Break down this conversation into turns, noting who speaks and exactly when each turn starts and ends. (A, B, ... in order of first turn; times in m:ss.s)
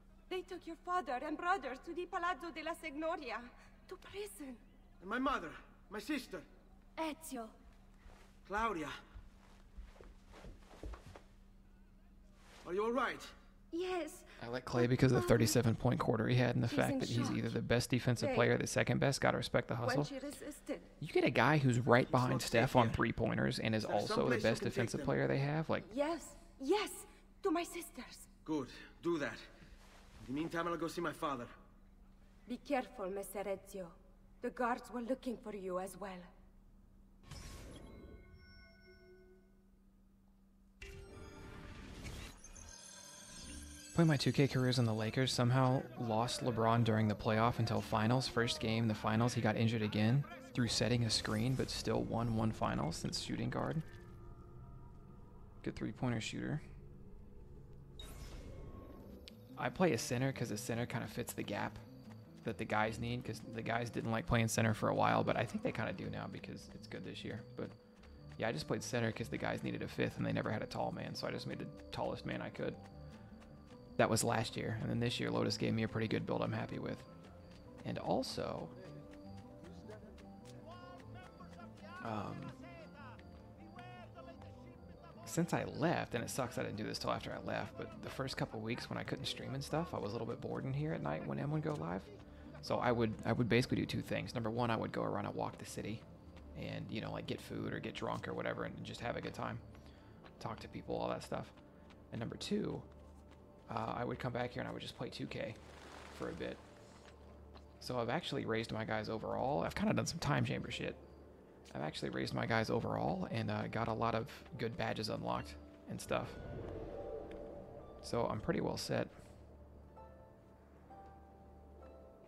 0:00.3-0:04.6 A
0:05.0-0:06.4 B
0:07.0-0:07.6 A
0:08.4-0:08.9 B
0:12.6-0:13.3 B
0:13.7-0:15.6 A
0:14.4-0:20.1 C
0:16.7-0:17.6 A
0:18.2-0:18.6 A
0:19.8-0:20.9 A
0:21.0-0:25.9 C
0:22.1-0:23.0 B
0:23.9-0:25.2 B
0:25.8-0:28.3 A
0:28.5-0:29.4 B
0:30.2-0:31.5 B
0:32.5-0:36.3 A
0:44.0-0:53.8 C
0:55.6-0:56.6 C
0:59.6-1:01.8 C
1:02.4-1:07.8 C
1:08.4-1:12.8 C
1:14.0-1:17.1 C
1:17.8-1:18.7 C
1:22.0-1:22.6 C
1:25.2-1:32.1 C
1:32.6-1:36.0 C
1:36.6-1:39.6 C
1:40.4-1:41.5 C
1:42.1-1:42.9 C
1:43.7-1:45.6 C
1:46.1-1:46.6 C
1:47.8-1:51.0 C
1:51.7-1:56.4 C
1:58.0-1:59.1 C